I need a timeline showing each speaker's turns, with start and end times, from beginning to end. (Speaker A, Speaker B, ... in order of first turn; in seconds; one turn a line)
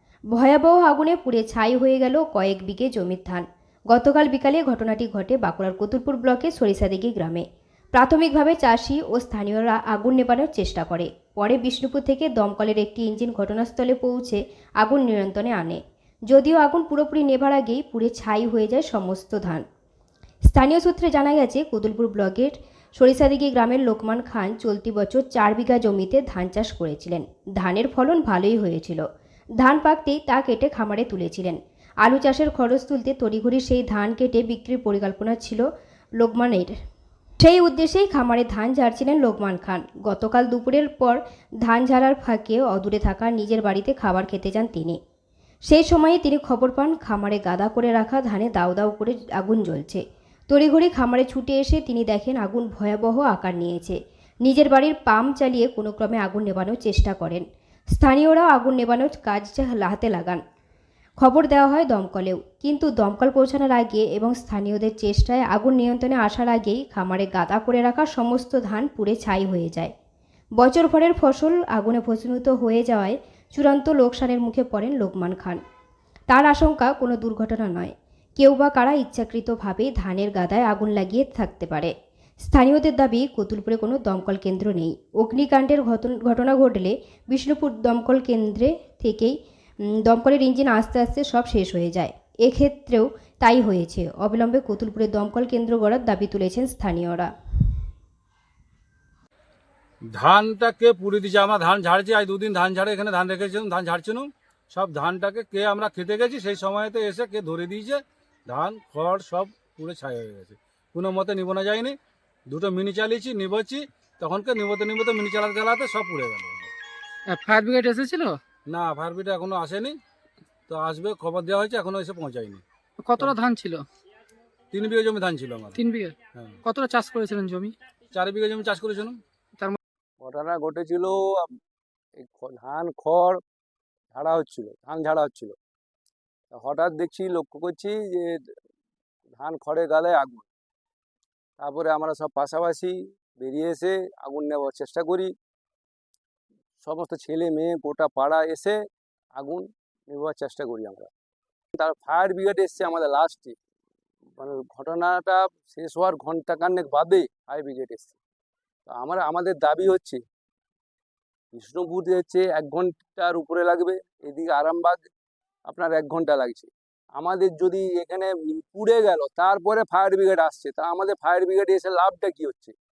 Speaker A: 0.3-19.6
Speaker A: 20.5-29.1
Speaker A: 29.6-35.6
Speaker A: 36.2-36.7
Speaker A: 37.4-45.0
Speaker A: 45.7-60.4
Speaker A: 61.2-69.9
Speaker A: 70.6-75.6
Speaker A: 76.3-97.3
Speaker B: 100.1-112.0
Speaker B: 112.5-116.7
Speaker C: 117.3-118.4
Speaker B: 118.7-120.0
Speaker B: 120.7-122.6
Speaker C: 123.0-123.8
Speaker B: 124.7-125.8
Speaker C: 125.8-127.7
Speaker B: 128.1-129.2
Speaker D: 130.2-131.5
Speaker D: 132.2-133.4
Speaker D: 134.1-135.6
Speaker D: 136.5-138.4
Speaker D: 139.4-140.5
Speaker D: 141.6-145.3
Speaker D: 146.8-148.8
Speaker D: 149.3-151.1
Speaker D: 151.8-153.6
Speaker D: 154.4-158.2
Speaker D: 158.9-160.2
Speaker D: 161.5-165.0
Speaker D: 165.7-172.7